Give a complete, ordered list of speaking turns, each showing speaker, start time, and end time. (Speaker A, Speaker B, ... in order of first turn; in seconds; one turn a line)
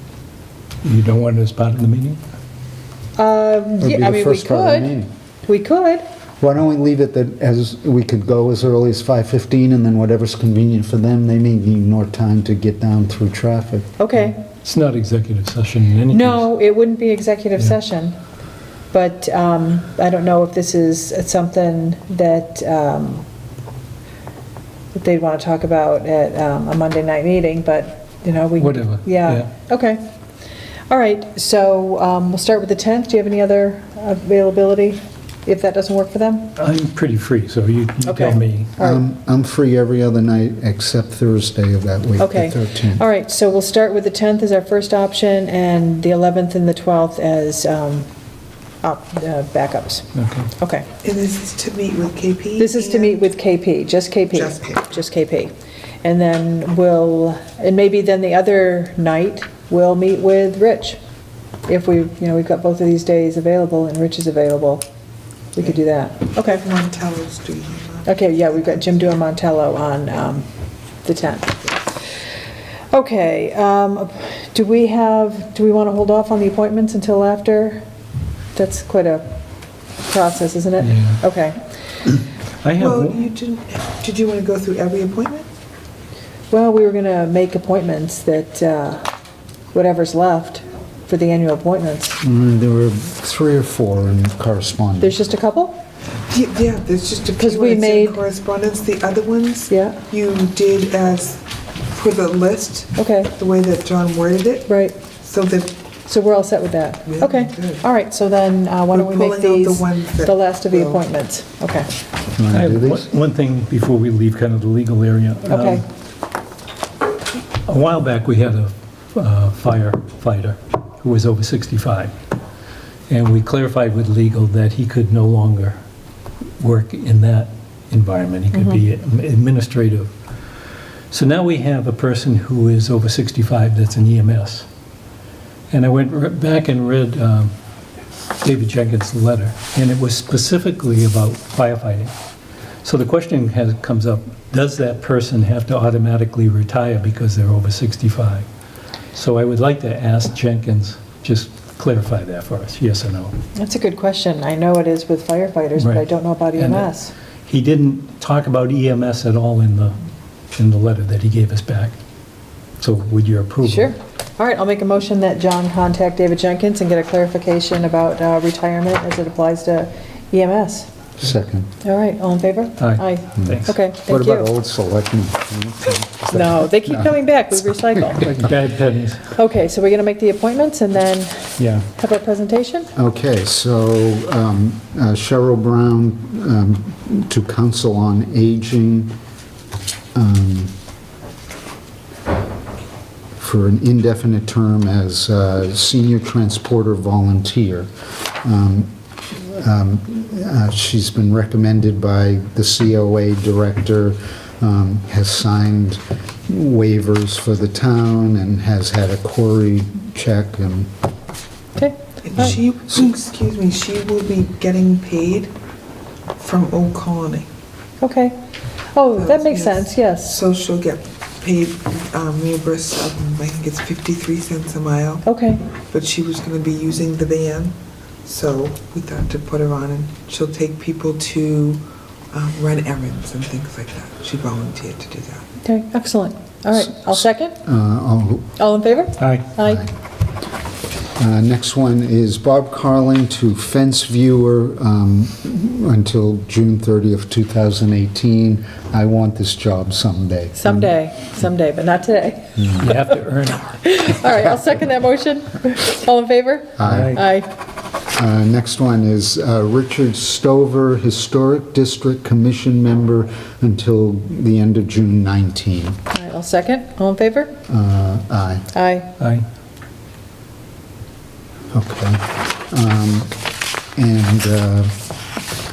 Speaker A: 0.8-2.2
Speaker B: 3.2-4.9
Speaker C: 3.8-5.1
Speaker B: 5.4-6.0
Speaker C: 6.4-13.9
Speaker B: 14.0-14.4
Speaker A: 14.6-16.5
Speaker B: 16.1-18.2
Speaker B: 18.9-23.3
Speaker B: 24.9-30.0
Speaker A: 28.6-29.4
Speaker B: 30.9-36.5
Speaker A: 36.5-38.7
Speaker B: 38.0-39.0
Speaker C: 38.8-43.0
Speaker B: 42.2-48.1
Speaker B: 48.8-50.9
Speaker A: 50.1-50.5
Speaker D: 51.0-53.2
Speaker B: 52.6-61.0
Speaker D: 54.3-54.8
Speaker B: 61.7-64.8
Speaker B: 65.5-66.7
Speaker D: 66.3-69.0
Speaker B: 68.1-70.5
Speaker B: 71.0-71.9
Speaker B: 72.9-77.8
Speaker B: 78.5-79.4
Speaker B: 80.0-81.6
Speaker A: 80.8-81.2
Speaker A: 82.6-83.2
Speaker D: 82.8-85.5
Speaker B: 86.5-89.1
Speaker B: 89.7-92.2
Speaker C: 92.2-95.2
Speaker B: 95.0-95.8
Speaker D: 96.3-105.7
Speaker B: 97.4-98.2
Speaker B: 99.7-100.0
Speaker B: 103.0-103.3
Speaker B: 104.7-105.0
Speaker B: 106.1-111.9
Speaker D: 107.0-107.8
Speaker D: 108.9-111.0
Speaker C: 112.3-113.1
Speaker A: 112.5-115.8
Speaker B: 115.5-115.8
Speaker A: 117.7-122.1
Speaker A: 123.1-125.8
Speaker A: 126.6-130.1
Speaker B: 128.5-128.8
Speaker A: 131.1-134.7
Speaker A: 135.7-137.5
Speaker A: 138.4-142.1
Speaker A: 142.8-148.5
Speaker A: 149.1-153.3
Speaker B: 153.6-157.1
Speaker A: 155.8-156.9
Speaker A: 157.5-160.0
Speaker A: 160.5-162.0
Speaker A: 162.8-163.9
Speaker B: 163.6-170.9
Speaker C: 171.2-171.7
Speaker B: 171.8-174.5
Speaker A: 172.8-173.8
Speaker C: 173.4-177.2
Speaker B: 176.3-178.2
Speaker C: 177.7-178.4
Speaker A: 178.2-179.2
Speaker B: 179.3-182.9
Speaker A: 181.6-181.9
Speaker C: 183.0-189.2
Speaker C: 190.2-190.7
Speaker C: 193.4-197.9
Speaker C: 198.4-210.9
Speaker D: 212.2-215.5
Speaker D: 216.4-217.5
Speaker B: 218.0-218.4
Speaker B: 218.9-220.4
Speaker D: 219.2-225.3
Speaker B: 225.2-225.6
Speaker D: 225.9-235.4
Speaker B: 235.6-237.6
Speaker C: 237.1-238.5
Speaker B: 238.6-239.9
Speaker A: 239.2-239.5
Speaker C: 239.6-239.9
Speaker C: 241.2-250.9
Speaker B: 250.6-252.9
Speaker A: 252.8-253.8
Speaker B: 253.8-257.5
Speaker C: 256.8-257.2
Speaker A: 256.8-257.2
Speaker C: 258.1-266.0
Speaker B: 266.1-267.6
Speaker C: 267.7-268.7
Speaker B: 268.7-269.1
Speaker A: 269.2-269.4
Speaker C: 271.7-273.3
Speaker C: 273.9-274.9